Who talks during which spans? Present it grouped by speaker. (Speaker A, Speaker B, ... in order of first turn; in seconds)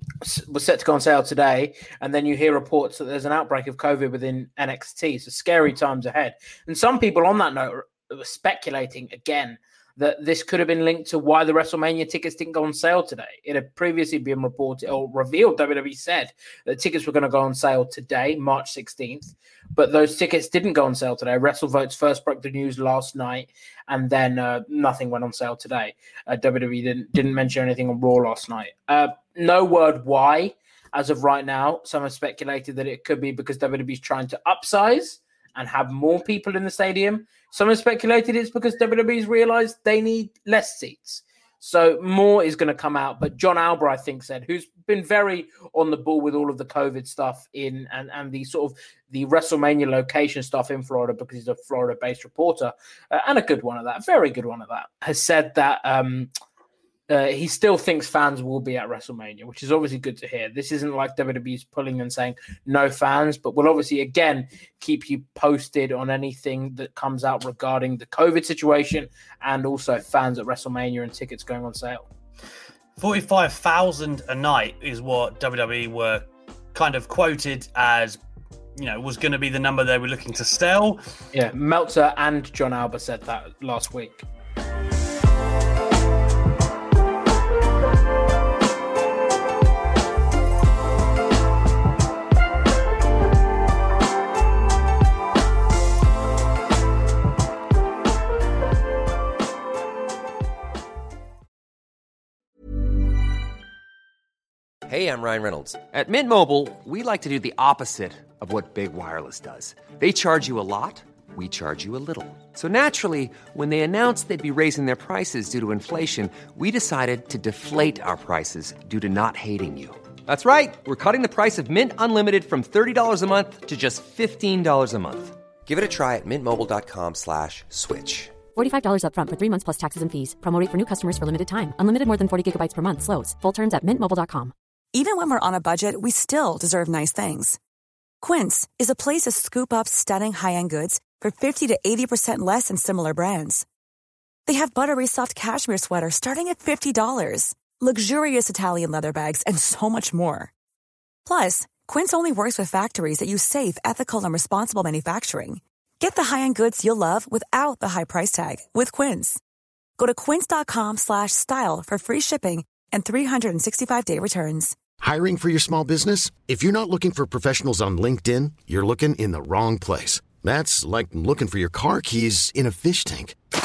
Speaker A: 0.2-56.3, 57.1-72.1, 81.3-84.2
Speaker B: 73.0-78.2, 78.8-81.0
Speaker C: 104.9-128.4
Speaker D: 128.5-134.5
Speaker E: 134.9-137.6, 138.2-143.6, 144.4-150.5, 151.2-159.4, 160.0-164.8
Speaker F: 165.0-173.4